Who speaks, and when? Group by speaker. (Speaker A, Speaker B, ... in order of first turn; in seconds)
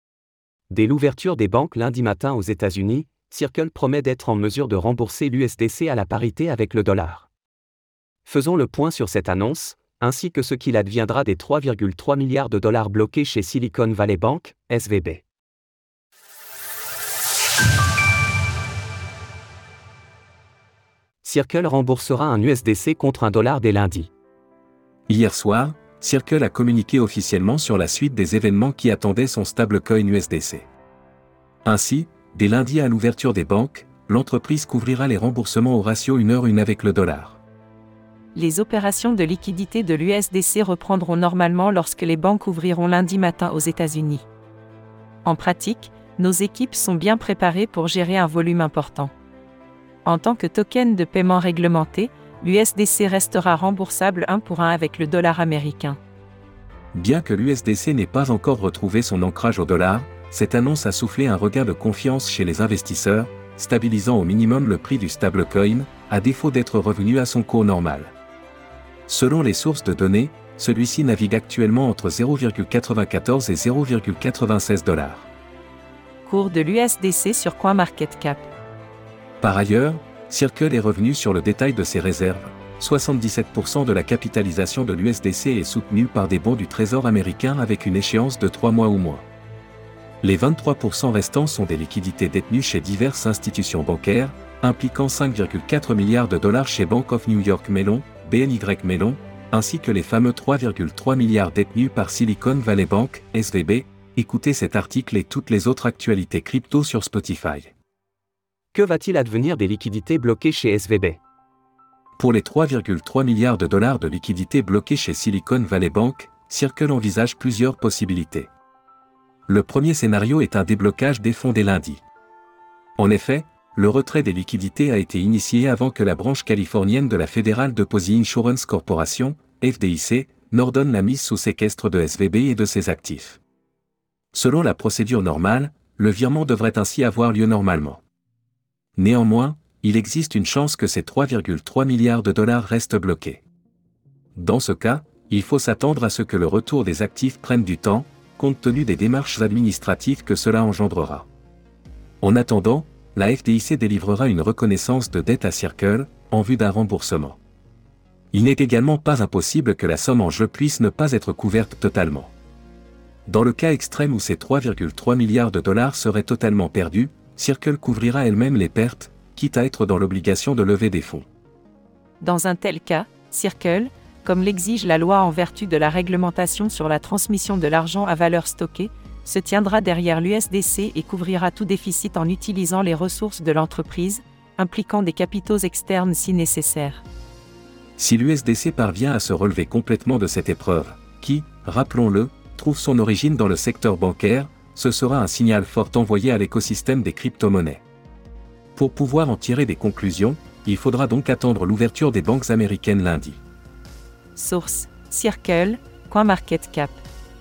Speaker A: 0.7-7.3, 8.3-15.2, 21.2-24.1, 108.7-111.2
Speaker B: 25.1-30.7, 31.6-37.4, 56.9-68.1, 69.1-75.3, 79.4-89.3, 90.2-107.7, 112.2-118.5, 119.5-122.0, 123.0-133.4, 134.3-138.0, 139.0-143.4, 144.3-151.3, 152.2-157.4, 158.3-162.3, 163.3-171.3, 188.0-197.8, 198.8-203.4
Speaker C: 38.4-44.2, 45.2-49.1, 50.0-56.0, 76.3-78.5, 172.2-187.0, 204.3-207.0